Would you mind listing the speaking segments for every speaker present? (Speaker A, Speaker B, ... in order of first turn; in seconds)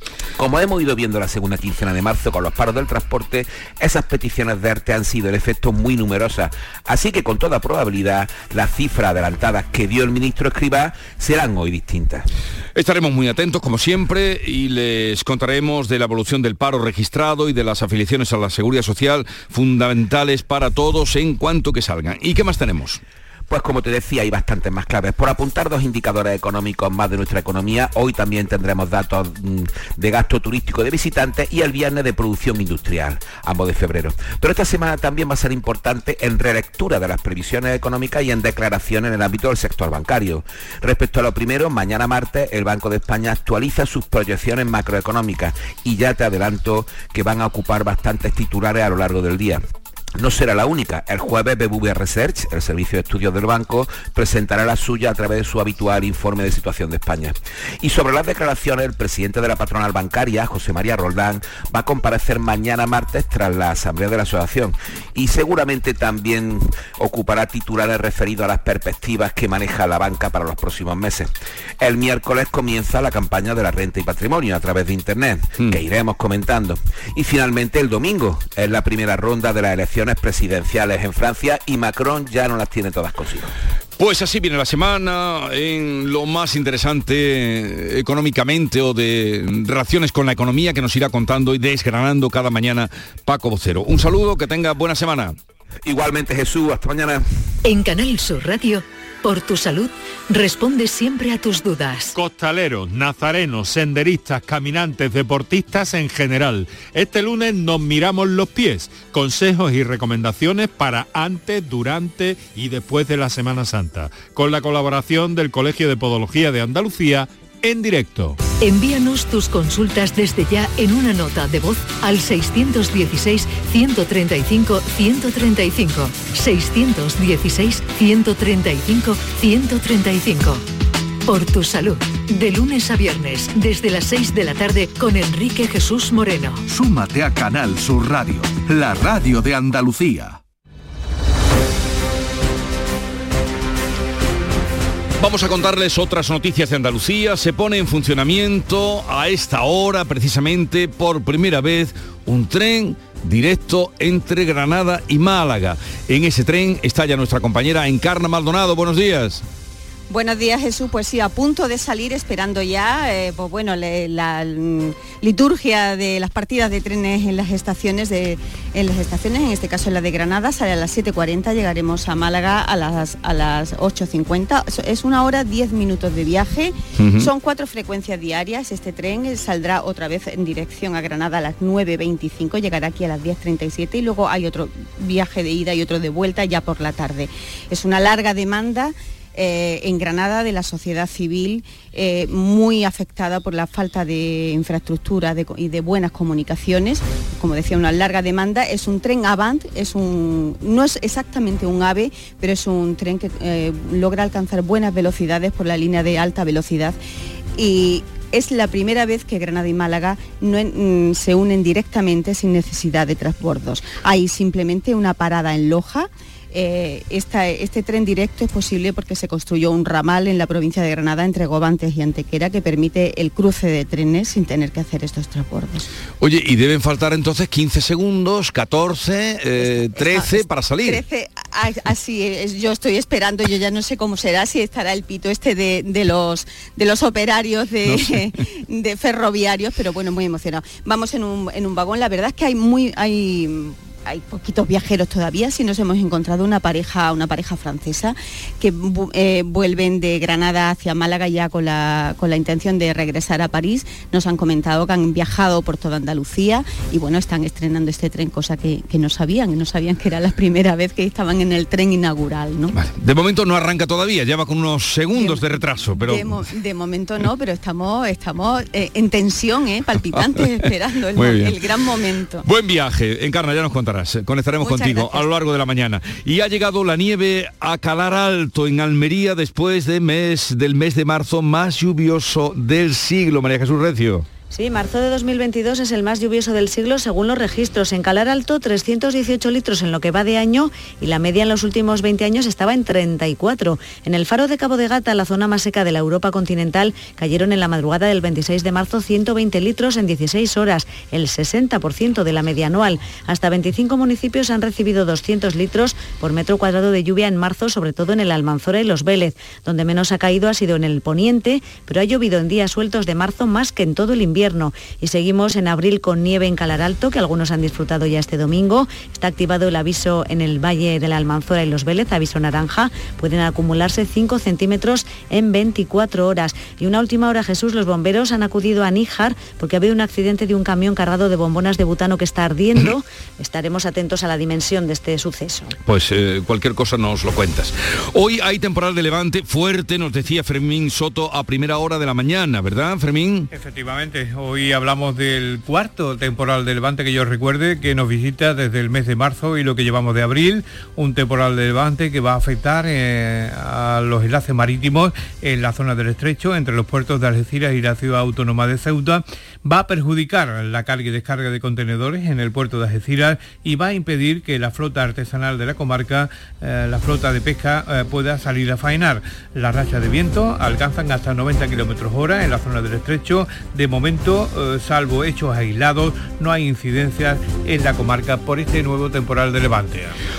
Speaker A: 0.4-12.2, 23.5-49.6, 50.2-83.5, 95.9-97.2
Speaker B: 12.8-23.0, 84.0-95.3, 145.2-159.4, 177.0-177.3, 226.2-231.0, 237.8-238.1, 262.7-266.3, 271.1-271.6, 272.4-284.3, 335.9-343.5
Speaker C: 97.7-102.2, 118.6-130.6, 131.3-136.6
Speaker D: 102.2-118.4
Speaker E: 136.7-140.4
Speaker F: 160.1-207.0, 207.6-225.8, 229.6-262.8, 265.1-272.4, 274.6-275.3
Speaker G: 284.5-335.8
Speaker H: 343.5-380.2